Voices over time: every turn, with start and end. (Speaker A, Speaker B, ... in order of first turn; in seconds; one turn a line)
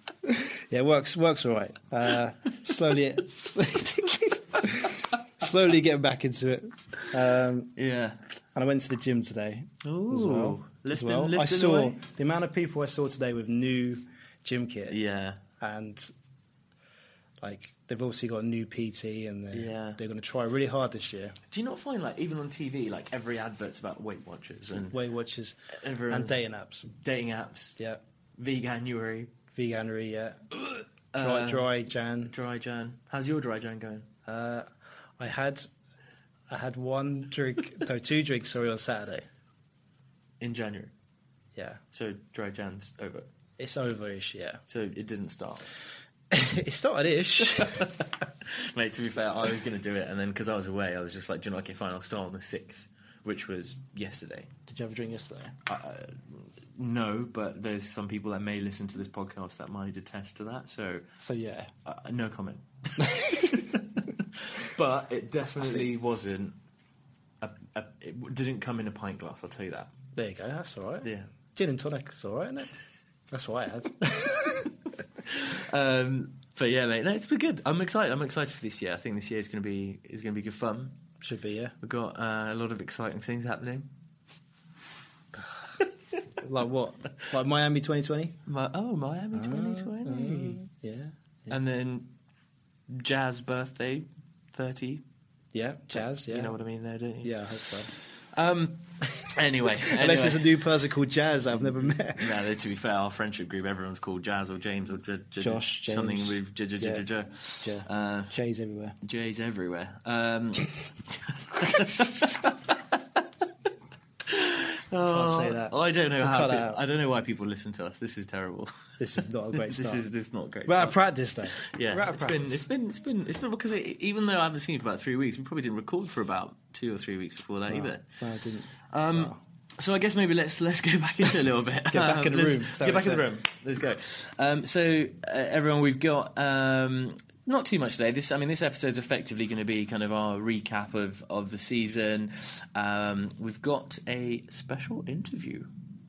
Speaker A: 0.2-7.7
Speaker B: 7.8-8.2
Speaker A: 8.5-15.0
Speaker B: 9.8-12.0
Speaker B: 14.9-15.4
Speaker A: 15.6-16.1
Speaker A: 17.4-21.4
Speaker B: 19.5-20.0
Speaker B: 21.5-25.0
Speaker A: 24.7-25.6
Speaker B: 25.8-27.8
Speaker A: 26.1-26.9
Speaker B: 28.4-29.3
Speaker A: 29.5-30.5
Speaker B: 30.5-31.7
Speaker A: 31.1-32.3
Speaker B: 32.3-34.1
Speaker A: 34.2-35.7
Speaker A: 36.5-39.2
Speaker B: 40.4-40.9
Speaker A: 41.5-41.8
Speaker B: 41.9-43.3
Speaker A: 43.6-44.6
Speaker B: 44.7-45.6
Speaker A: 46.3-47.9
Speaker B: 47.6-54.5
Speaker A: 54.7-55.5
Speaker B: 55.6-61.1
Speaker A: 61.2-61.7
Speaker B: 61.8-66.5
Speaker A: 63.0-63.5
Speaker B: 67.4-69.9
Speaker A: 70.1-72.7
Speaker B: 71.0-71.3
Speaker A: 73.3-74.7
Speaker B: 75.3-81.0
Speaker A: 81.2-81.8
Speaker B: 81.8-83.9
Speaker A: 86.4-88.4
Speaker B: 88.5-90.6
Speaker A: 89.3-91.5
Speaker B: 91.5-92.1
Speaker B: 92.9-95.0
Speaker A: 95.5-96.5
Speaker B: 95.9-100.5
Speaker A: 97.2-97.9
Speaker A: 99.8-102.4
Speaker B: 101.6-108.3
Speaker A: 105.4-107.0
Speaker A: 107.6-109.0
Speaker B: 109.0-113.2
Speaker B: 114.2-118.7
Speaker A: 115.0-116.8
Speaker A: 119.0-120.1
Speaker B: 119.5-121.0
Speaker A: 120.7-122.5
Speaker B: 121.5-128.0
Speaker A: 127.7-129.4
Speaker B: 128.9-145.7
Speaker A: 131.9-133.3